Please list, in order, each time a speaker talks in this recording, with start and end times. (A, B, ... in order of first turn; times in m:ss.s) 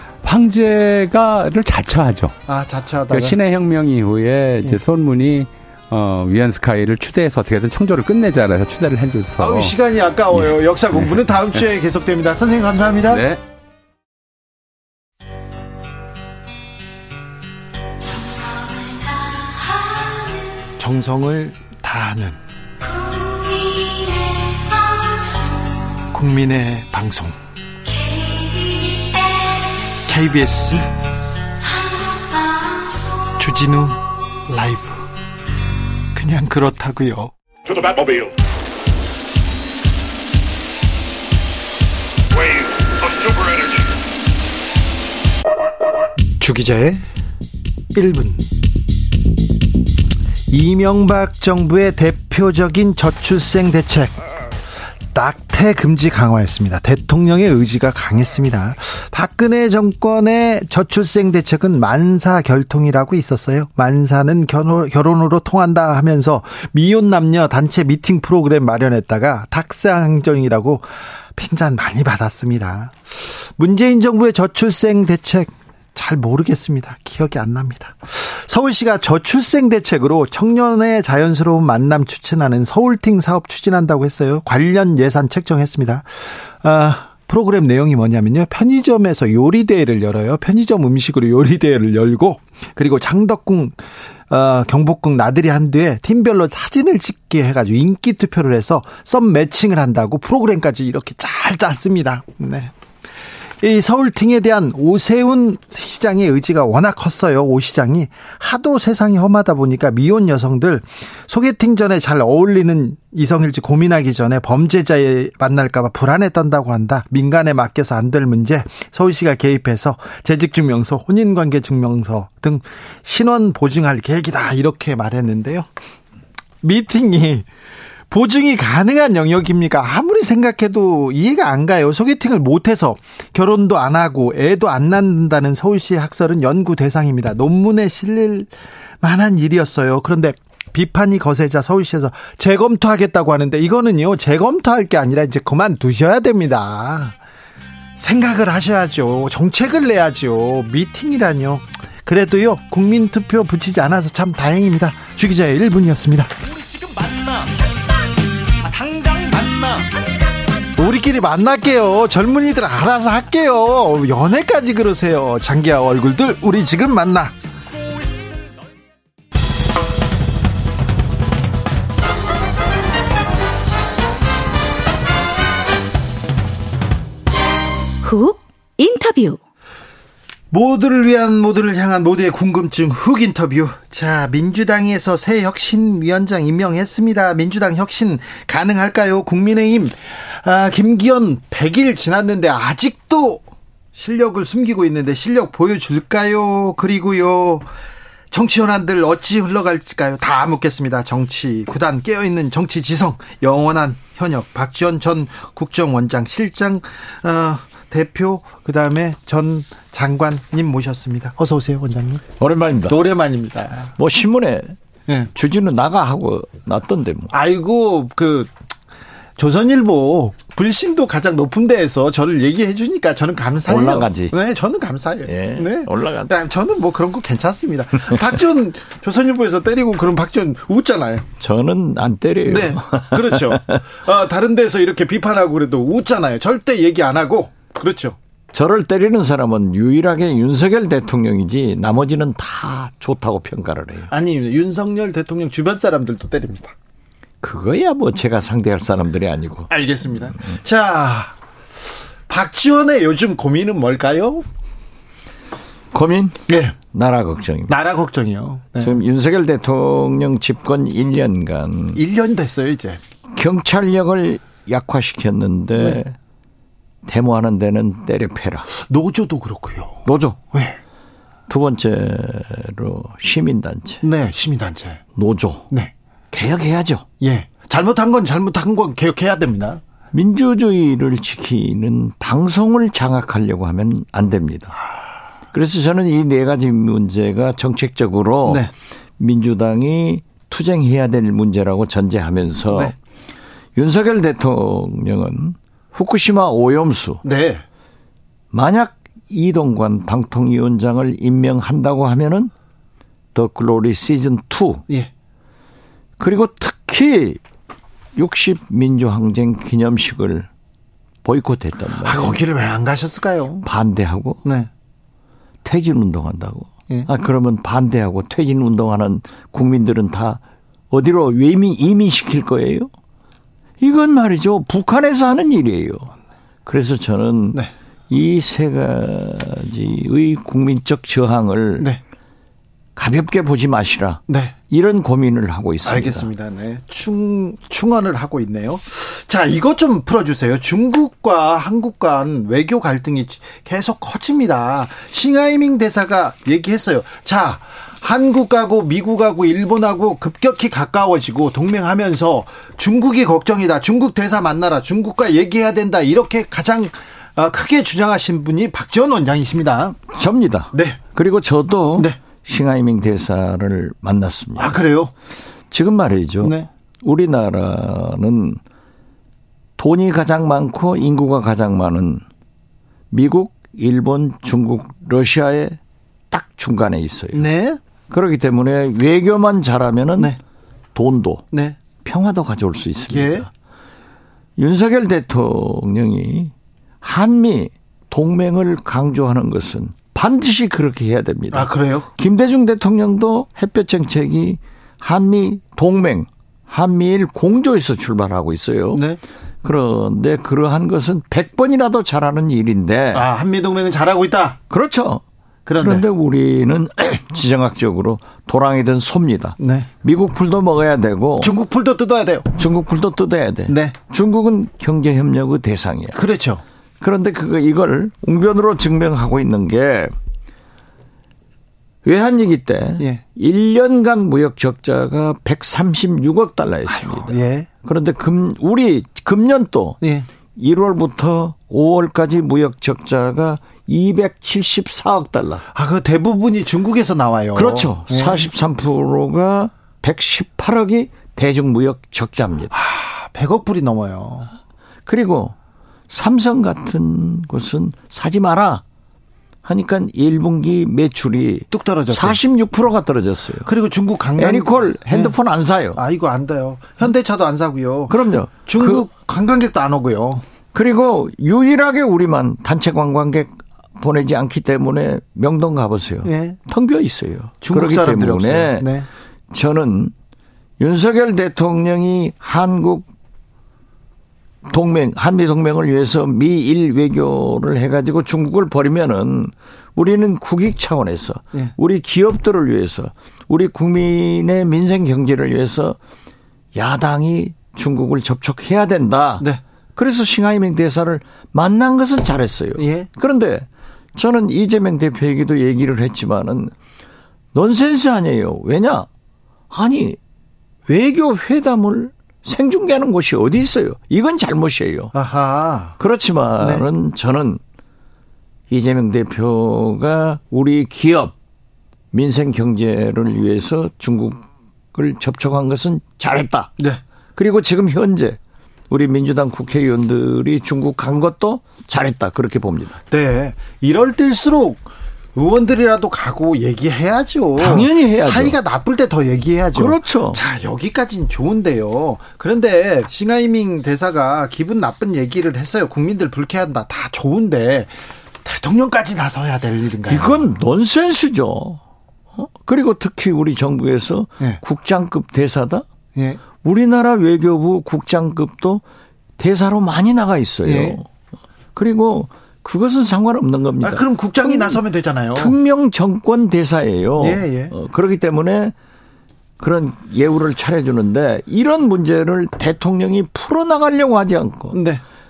0:00.2-0:02.4 A
0:02.5-0:03.4 B
0:03.1-0:09.7 A
0:09.4-0:13.2 B
0:10.3-0:11.2 A
0:13.1-0:13.4 A
0:18.1-0:20.5 C
0:20.8-0:22.4 B
0:23.0-0:25.6 C
0:26.1-0:27.4 B
0:27.8-0:29.6 C
0:30.0-0:30.9 B
0:31.8-0:33.2 C
0:33.4-0:35.0 B
0:36.1-0:37.3 B
0:37.8-0:38.3 C
0:43.0-0:43.8 C
0:46.4-0:47.0 B
0:47.9-0:48.5 B
0:50.5-0:54.2 B
0:55.1-1:42.7 B
1:43.6-2:05.7 B
2:06.6-2:07.5 B
2:08.1-2:27.2 B
2:28.0-2:36.3 B
2:38.8-2:39.7 D
2:40.7-2:47.3 B
2:58.0-2:59.4 C
3:00.5-3:13.4 B
3:13.9-3:17.7 B
3:18.3-3:32.3 B
3:32.4-3:33.0 D
3:32.9-3:33.9 B
3:34.0-3:34.8 D
3:35.3-3:37.3 D
3:37.3-3:38.5 B
3:39.4-3:51.3 B
3:43.6-3:44.3 D
3:45.2-3:46.3 D
3:51.4-3:53.8 D
3:52.4-3:58.2 B
3:58.5-4:04.1 D
4:04.1-4:06.7 B
4:07.4-4:09.7 D
4:09.7-4:11.3 B
4:12.3-4:14.5 B
4:15.9-4:17.7 D
4:16.5-4:16.8 B
4:17.7-4:19.0 B
4:18.8-4:22.0 D
4:21.9-4:23.0 B
4:23.3-4:26.1 D
4:27.0-4:28.7 D
4:28.8-4:30.8 B
4:30.0-4:30.4 D
4:31.5-4:34.0 D
4:34.0-4:35.0 B
4:35.1-4:35.7 D
4:36.3-4:37.0 D
4:37.2-4:39.8 B
4:40.1-4:44.7 D
4:45.5-4:52.9 D
4:48.4-4:48.7 B
4:53.8-4:57.2 D
4:57.2-4:57.6 B
4:58.5-5:02.5 D
5:03.3-5:04.8 D
5:06.2-5:07.4 D
5:08.1-5:10.5 D
5:11.2-5:12.4 D
5:12.0-5:13.6 B
5:13.6-5:14.4 D
5:14.4-5:14.7 B
5:15.6-5:22.9 D
5:23.8-5:26.1 D
5:26.6-5:31.9 D
5:33.0-5:36.3 D
5:34.3-5:34.6 B
5:35.8-6:00.0 B
6:00.1-6:04.7 D
6:00.7-6:01.0 B
6:04.6-6:05.1 B
6:05.7-6:08.6 D
6:06.4-6:06.7 B
6:09.8-6:12.2 D
6:13.1-6:15.8 D
6:16.3-6:17.4 D
6:17.3-6:17.8 B
6:18.1-6:20.4 D
6:20.9-6:23.5 D
6:21.5-6:21.8 B
6:23.1-6:23.4 B
6:24.6-6:39.0 D
6:31.5-6:32.1 B
6:38.9-6:39.2 B
6:39.6-6:43.2 D
6:43.1-6:44.6 B
6:44.7-6:45.2 D
6:45.6-6:46.0 B
6:45.8-6:51.5 D
6:49.6-6:49.9 B
6:51.4-6:52.6 B
6:52.6-6:56.2 D
6:53.7-6:54.0 B
6:56.2-6:56.6 B
6:57.0-7:00.1 D
7:02.0-7:10.0 D
7:06.9-7:07.7 B
7:10.0-7:10.3 B
7:10.6-7:15.6 D
7:15.7-7:18.5 B
7:17.5-7:22.7 D
7:22.7-7:24.5 B
7:25.0-7:25.5 D
7:26.1-7:28.8 D
7:29.6-7:33.7 D
7:31.7-7:32.4 B
7:33.6-7:35.4 B
7:34.4-7:36.0 D
7:35.9-7:40.4 B
7:38.1-7:39.0 D
7:40.7-7:49.0 D
7:46.2-7:46.6 B
7:47.6-7:49.1 B
7:49.5-7:50.1 D
7:50.8-7:53.1 D
7:54.6-8:06.0 D
8:06.7-8:16.7 D
8:12.8-8:13.1 B
8:17.5-8:19.1 D
8:19.7-8:20.2 D
8:20.9-8:25.1 D
8:25.1-8:26.0 B
8:26.0-8:27.6 D
8:26.6-8:26.8 B
8:28.7-8:31.3 D
8:32.1-8:36.7 D
8:37.4-8:38.4 D
8:38.9-8:43.0 D
8:43.1-9:00.5 B
8:47.6-8:48.6 D
8:49.7-8:50.4 D
9:00.1-9:01.8 D
9:02.3-9:05.8 D
9:06.5-9:08.8 D
9:09.4-9:11.1 D
9:10.6-9:11.0 B
9:11.8-9:14.8 D
9:13.8-9:15.6 B
9:15.3-9:18.7 D
9:17.2-9:17.7 B
9:19.6-9:24.8 D
9:24.7-9:25.0 B